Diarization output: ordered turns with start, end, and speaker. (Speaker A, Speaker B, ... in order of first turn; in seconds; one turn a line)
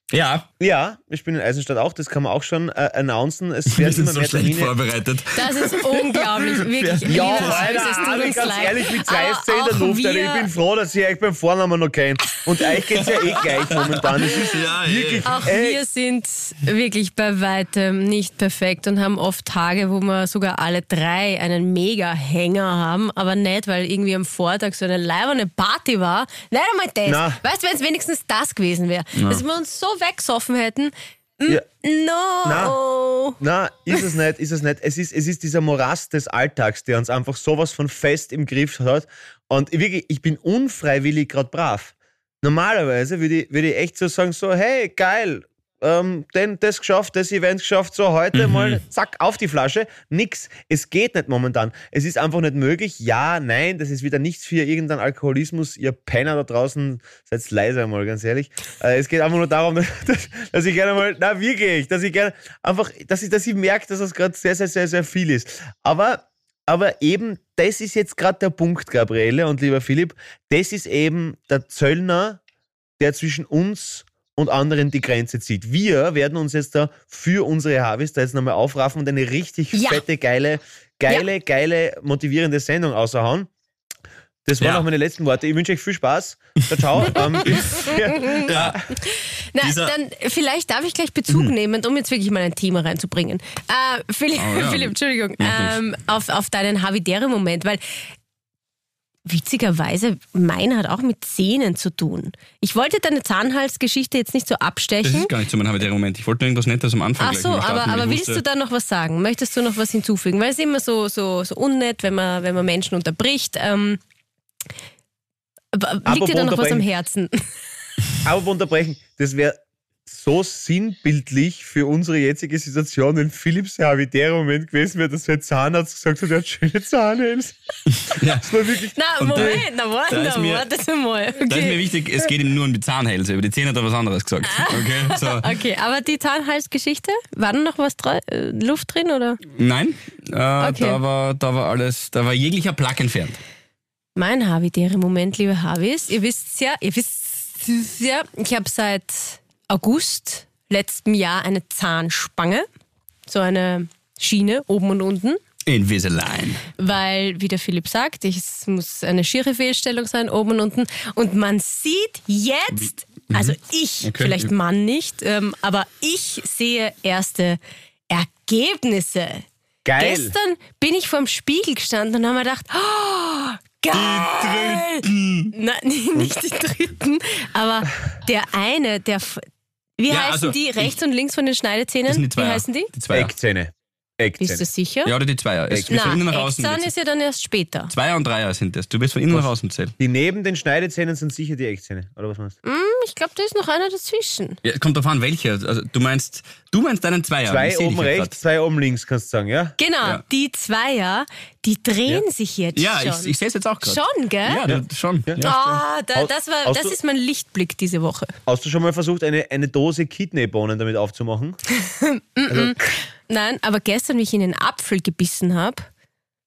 Speaker A: 0.1-0.5
Speaker B: 0.6-4.8
Speaker A: 3.7-8.5
Speaker C: 5.3-10.5
Speaker B: 7.1-15.8
Speaker A: 13.0-15.5
Speaker C: 15.2-33.4
Speaker B: 27.1-27.4
Speaker A: 29.2-29.4
Speaker B: 32.5-32.8
Speaker B: 33.4-72.4
Speaker A: 48.3-48.8
Speaker B: 73.0-83.5
Speaker C: 79.7-80.0
Speaker B: 84.5-88.8
Speaker A: 84.6-84.9
Speaker C: 87.7-88.5
Speaker A: 88.4-88.8
Speaker C: 89.0-97.8
Speaker A: 89.6-89.9
Speaker A: 94.4-95.8
Speaker C: 99.3-105.3
Speaker A: 105.0-108.4
Speaker C: 107.2-114.0
Speaker C: 115.7-117.5
Speaker B: 116.1-116.9
Speaker B: 118.2-127.5
Speaker A: 127.9-128.6
Speaker B: 128.3-128.9
Speaker C: 129.0-131.8
Speaker A: 129.2-130.7
Speaker A: 131.5-135.5
Speaker C: 134.5-139.4
Speaker A: 139.6-143.4
Speaker C: 140.6-141.0
Speaker C: 144.2-152.7
Speaker C: 153.3-155.4
Speaker A: 155.7-156.7
Speaker C: 156.8-169.4
Speaker A: 162.7-164.5
Speaker B: 169.8-170.3
Speaker C: 170.0-179.5
Speaker A: 173.9-175.5
Speaker C: 180.0-182.9
Speaker A: 180.1-180.9
Speaker A: 182.1-183.3
Speaker B: 183.1-184.7
Speaker C: 184.4-185.1
Speaker A: 185.1-186.9
Speaker B: 185.7-186.2
Speaker C: 185.9-187.9
Speaker A: 187.9-189.9
Speaker B: 189.3-192.6
Speaker C: 192.7-194.6
Speaker A: 194.6-198.3
Speaker B: 197.4-199.8
Speaker C: 199.8-204.6
Speaker A: 202.8-205.8
Speaker B: 204.7-205.5
Speaker C: 205.4-208.3
Speaker B: 206.1-206.9
Speaker B: 208.5-211.6
Speaker C: 211.7-215.9
Speaker B: 212.5-212.8